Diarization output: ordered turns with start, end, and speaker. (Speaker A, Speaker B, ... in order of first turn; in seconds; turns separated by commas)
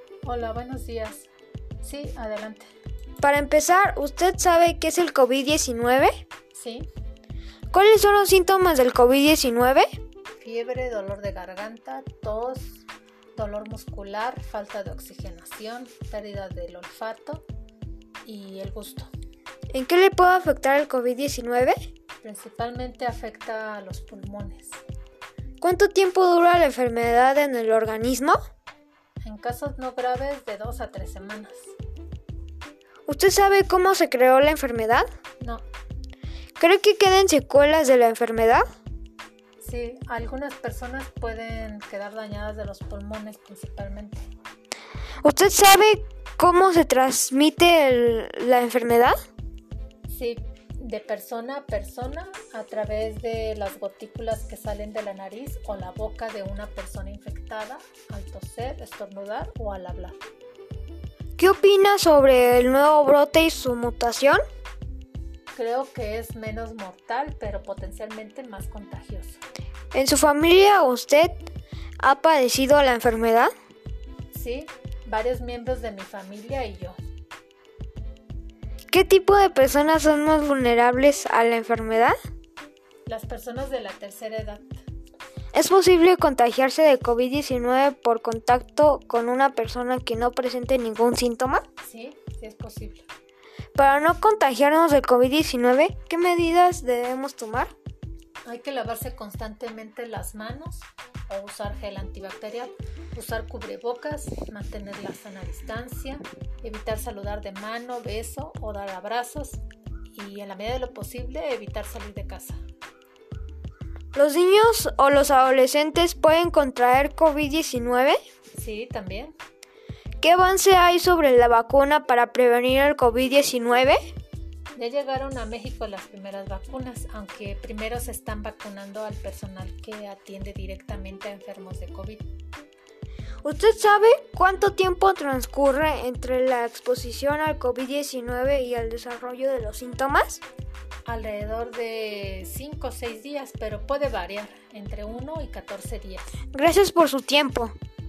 Speaker A: 0.2-1.3, Speaker A: 1.8-2.6, Speaker B: 3.2-6.1, Speaker A: 6.5-6.9, Speaker B: 7.7-9.9, Speaker A: 10.4-12.8, Speaker A: 13.3-17.4, Speaker A: 18.2-19.1, Speaker B: 19.7-21.7, Speaker A: 22.2-24.8, Speaker B: 25.6-28.4, Speaker A: 29.2-31.7, Speaker B: 33.1-35.0, Speaker B: 36.6-38.6, Speaker A: 39.6-44.2, Speaker B: 45.2-49.1, Speaker A: 50.1-60.2, Speaker B: 61.4-64.4, Speaker A: 65.5-69.4, Speaker B: 69.9-71.3, Speaker B: 72.0-73.5, Speaker A: 74.3-77.0, Speaker B: 78.9-82.1, Speaker A: 83.0-84.7, Speaker B: 85.5-91.6, Speaker A: 91.8-93.0, Speaker B: 93.8-97.7, Speaker A: 98.4-112.6, Speaker B: 114.1-118.2, Speaker A: 118.5-119.3, Speaker B: 120.2-124.0, Speaker A: 124.7-132.2, Speaker B: 133.4-140.4, Speaker A: 141.1-146.3, Speaker B: 146.5-147.7